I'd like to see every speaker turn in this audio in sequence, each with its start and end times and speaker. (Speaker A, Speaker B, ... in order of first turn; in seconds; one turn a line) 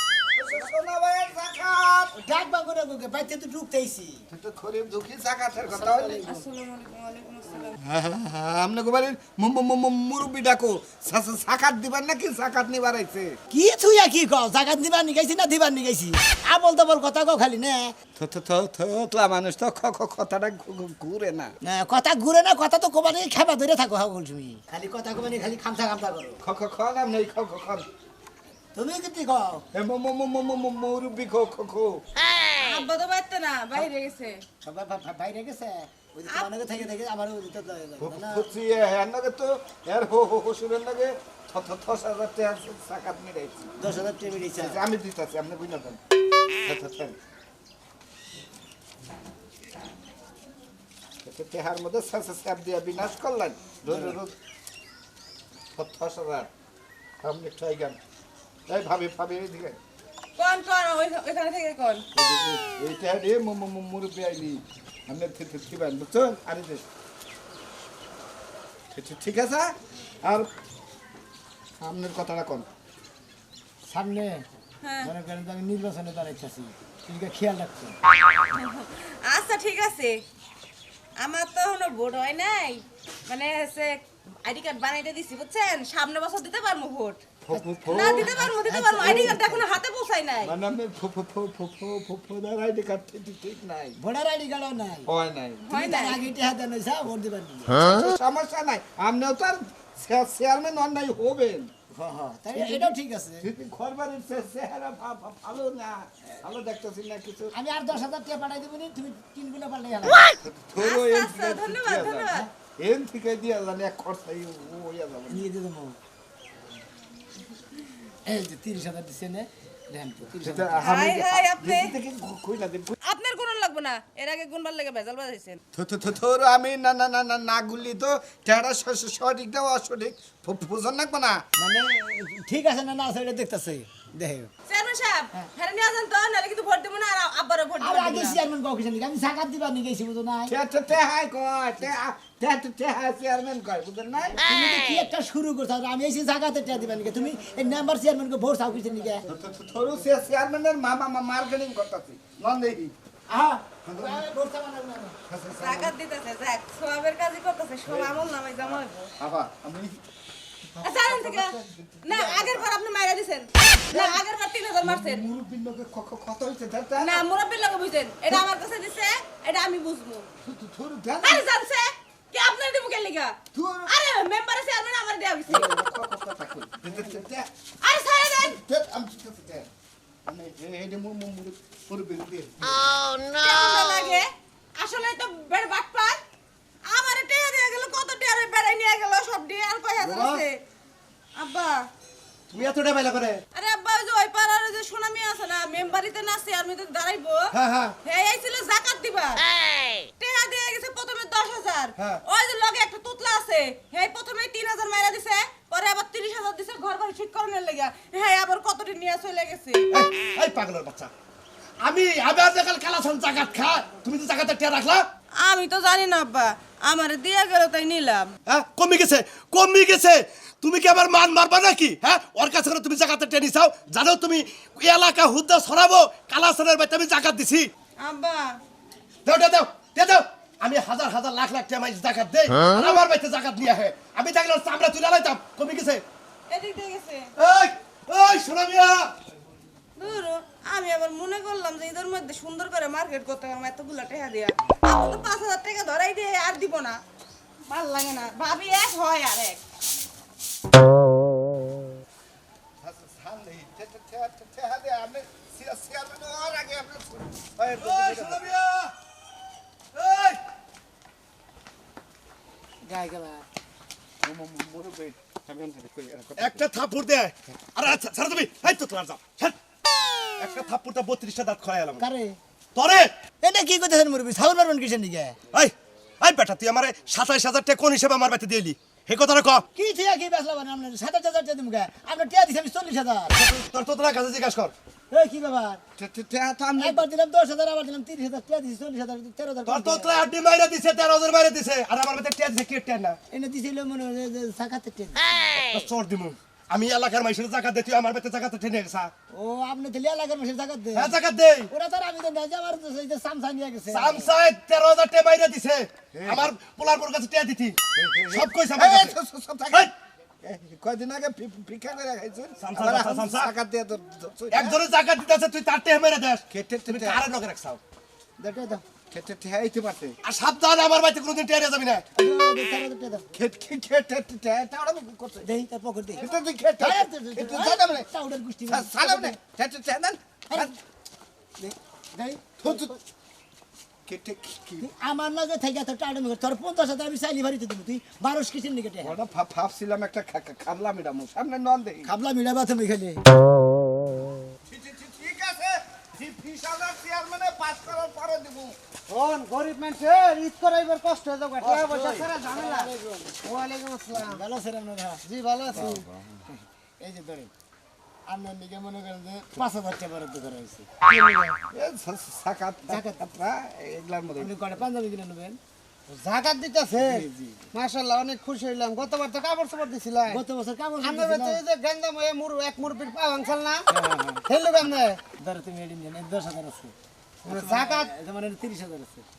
Speaker A: 0.3-2.1
Speaker B: 2.2-4.2
Speaker A: 4.3-6.3
Speaker B: 5.7-6.4
Speaker C: 6.0-7.8
Speaker A: 7.8-13.3
Speaker B: 13.5-18.0
Speaker A: 18.2-21.5
Speaker B: 21.6-26.4
Speaker A: 26.4-27.9
Speaker B: 28.8-29.6
Speaker A: 29.7-32.0
Speaker C: 32.5-34.4
Speaker B: 34.6-38.5
Speaker C: 36.3-36.6
Speaker A: 38.0-43.7
Speaker B: 43.8-44.8
Speaker A: 44.6-46.0
Speaker A: 46.6-47.2
Speaker A: 51.2-54.4
Speaker A: 55.8-56.5
Speaker A: 57.2-58.0
Speaker A: 58.7-59.8
Speaker C: 60.4-62.0
Speaker A: 62.1-66.8
Speaker A: 68.9-70.5
Speaker A: 71.8-72.7
Speaker B: 73.9-74.5
Speaker C: 74.8-75.1
Speaker B: 75.0-78.0
Speaker C: 78.5-80.2
Speaker C: 81.2-87.2
Speaker A: 87.4-88.5
Speaker B: 87.5-89.7
Speaker C: 87.9-90.6
Speaker A: 89.0-89.3
Speaker A: 90.4-94.0
Speaker B: 94.0-95.1
Speaker A: 95.1-95.7
Speaker C: 95.6-96.2
Speaker B: 95.7-97.8
Speaker A: 97.8-101.7
Speaker B: 101.9-103.5
Speaker A: 102.5-107.5
Speaker B: 107.5-110.3
Speaker A: 110.4-115.4
Speaker C: 110.8-112.5
Speaker B: 115.3-116.0
Speaker B: 118.3-121.0
Speaker A: 120.4-123.0
Speaker C: 120.8-121.9
Speaker C: 123.0-125.6
Speaker A: 125.8-131.4
Speaker B: 131.6-134.5
Speaker C: 134.7-138.4
Speaker B: 137.8-140.5
Speaker A: 140.5-144.4
Speaker B: 144.4-149.3
Speaker A: 149.3-152.9
Speaker B: 153.3-155.2
Speaker A: 153.9-154.2
Speaker A: 155.3-155.9
Speaker C: 155.5-159.1
Speaker A: 157.9-160.0
Speaker A: 160.6-162.7
Speaker C: 160.8-165.3
Speaker A: 163.8-164.2
Speaker A: 164.8-167.2
Speaker C: 167.0-170.3
Speaker A: 170.4-171.5
Speaker C: 171.2-175.7
Speaker A: 173.5-173.9
Speaker A: 175.5-177.5
Speaker C: 177.8-178.6
Speaker A: 178.2-179.7
Speaker A: 180.3-182.8
Speaker C: 183.3-186.2
Speaker C: 186.8-190.6
Speaker B: 190.1-190.4
Speaker C: 191.4-191.9
Speaker D: 192.5-193.4
Speaker C: 193.5-199.5
Speaker A: 197.6-197.9
Speaker C: 200.2-209.9
Speaker D: 209.9-211.1
Speaker D: 211.8-215.1
Speaker C: 215.4-218.3
Speaker D: 218.5-227.7
Speaker C: 228.0-228.6
Speaker D: 229.2-236.0
Speaker C: 236.5-237.3
Speaker D: 237.4-239.1
Speaker C: 240.0-247.0
Speaker C: 247.7-249.6
Speaker A: 252.8-258.5
Speaker D: 257.7-258.9
Speaker D: 259.9-260.4
Speaker B: 262.9-263.4
Speaker A: 264.2-266.6
Speaker D: 266.4-269.6
Speaker D: 270.4-272.0
Speaker B: 272.0-272.4
Speaker D: 272.8-273.1
Speaker B: 273.4-275.4
Speaker D: 275.5-279.6
Speaker B: 279.8-283.3
Speaker D: 283.3-284.7
Speaker B: 285.1-285.8
Speaker A: 286.0-287.0
Speaker B: 286.8-290.2
Speaker D: 289.7-293.2
Speaker B: 293.3-295.2
Speaker D: 295.6-299.1
Speaker B: 299.3-304.3
Speaker D: 300.9-301.7
Speaker D: 303.9-309.2
Speaker A: 306.2-306.5
Speaker A: 308.0-309.9
Speaker A: 310.4-314.8
Speaker D: 312.6-313.5
Speaker D: 314.5-317.8
Speaker A: 316.5-317.2
Speaker B: 318.4-318.8
Speaker A: 319.1-320.1
Speaker D: 320.2-322.0
Speaker B: 322.2-323.3
Speaker A: 323.4-325.4
Speaker B: 325.4-326.3
Speaker A: 326.2-328.1
Speaker B: 326.8-329.4
Speaker A: 328.7-330.8
Speaker B: 331.6-333.0
Speaker A: 332.6-332.9
Speaker A: 334.1-334.9
Speaker B: 334.8-339.1
Speaker A: 339.0-342.1
Speaker B: 342.1-343.2
Speaker A: 344.7-348.8
Speaker E: 349.1-352.9
Speaker B: 351.9-353.3
Speaker E: 353.4-354.4
Speaker B: 354.1-355.2
Speaker E: 355.3-356.1
Speaker B: 355.8-356.0
Speaker B: 357.0-357.5
Speaker B: 358.3-360.9
Speaker E: 361.0-361.6
Speaker A: 361.7-364.5
Speaker B: 362.9-363.2
Speaker B: 364.4-365.6
Speaker E: 366.1-370.4
Speaker A: 367.0-367.7
Speaker B: 370.3-371.6
Speaker E: 371.0-373.8
Speaker B: 373.9-374.4
Speaker E: 374.5-375.2
Speaker B: 375.4-376.9
Speaker E: 377.4-378.1
Speaker B: 377.5-379.3